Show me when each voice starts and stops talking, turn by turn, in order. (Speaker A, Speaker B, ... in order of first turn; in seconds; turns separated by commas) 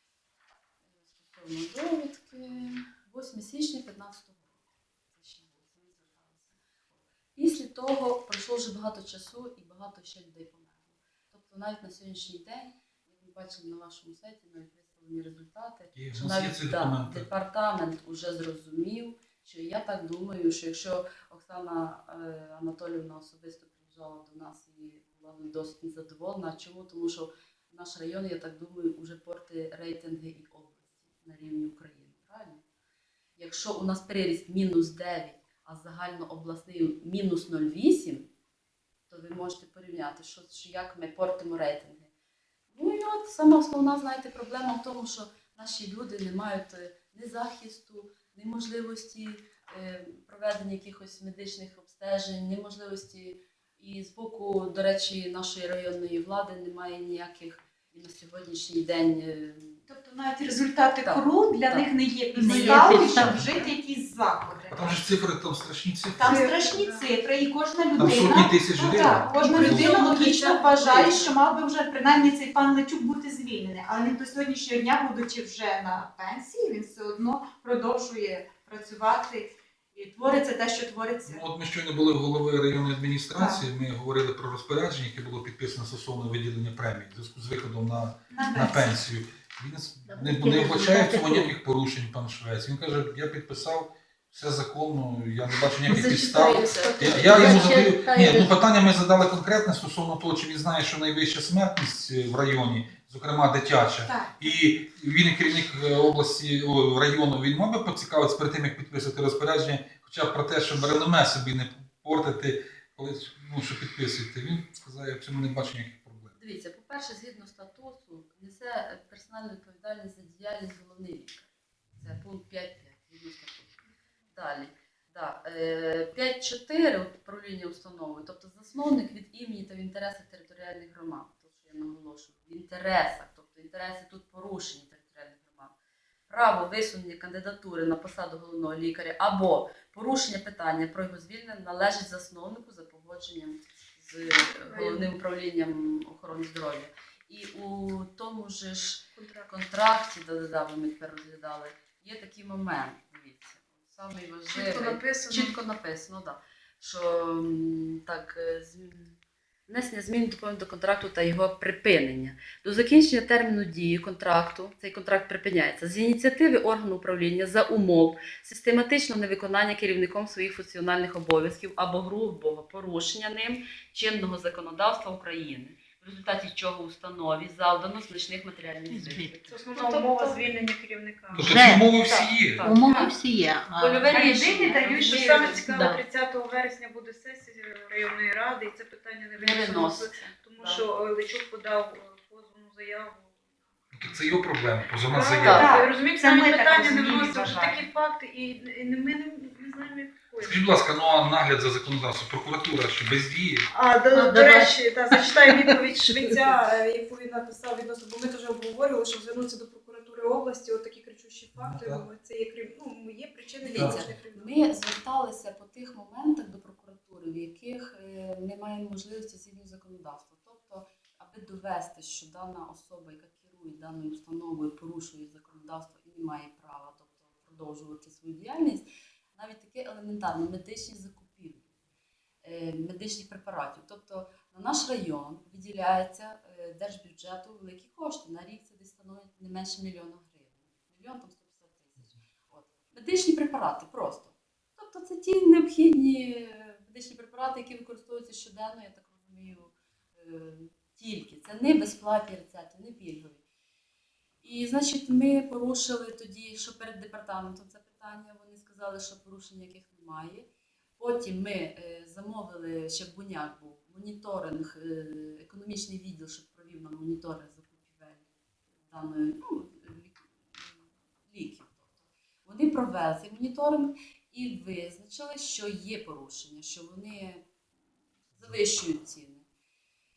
Speaker A: 1.0-32.6, Speaker B: 15.9-17.3, Speaker A: 33.4-38.3, Speaker A: 39.1-42.1, Speaker A: 42.7-59.9, Speaker C: 59.9-65.0, Speaker A: 61.0-61.9, Speaker D: 62.3-63.5, Speaker A: 62.5-63.2, Speaker E: 62.5-63.3, Speaker B: 64.7-66.5, Speaker C: 66.2-81.4, Speaker E: 66.2-67.1, Speaker B: 68.0-69.9, Speaker E: 69.1-71.3, Speaker A: 70.3-71.3, Speaker B: 81.2-116.3, Speaker C: 83.3-83.6, Speaker C: 88.3-89.0, Speaker D: 90.1-91.5, Speaker E: 95.9-98.2, Speaker A: 97.0-97.6, Speaker D: 97.2-98.5, Speaker C: 104.0-104.5, Speaker A: 116.3-135.7, Speaker A: 136.3-180.6, Speaker E: 144.2-145.1, Speaker E: 149.2-149.5, Speaker E: 154.5-155.6, Speaker D: 178.9-179.3, Speaker E: 179.4-183.2, Speaker B: 181.3-182.7, Speaker D: 181.3-181.9, Speaker A: 182.6-183.1, Speaker D: 182.6-184.2, Speaker A: 183.8-185.7, Speaker C: 184.1-185.8, Speaker E: 184.9-193.5, Speaker D: 185.6-186.0, Speaker A: 189.4-190.9, Speaker B: 193.9-195.7, Speaker E: 195.0-200.7, Speaker A: 195.4-195.8, Speaker C: 195.5-197.8, Speaker A: 197.2-197.6, Speaker B: 200.4-203.7, Speaker E: 203.7-214.5, Speaker D: 204.1-204.8, Speaker D: 205.5-206.4, Speaker B: 211.6-212.1, Speaker A: 213.6-231.7, Speaker B: 213.7-214.1, Speaker A: 232.4-253.4, Speaker A: 254.4-268.3, Speaker A: 268.9-277.4, Speaker A: 278.4-279.4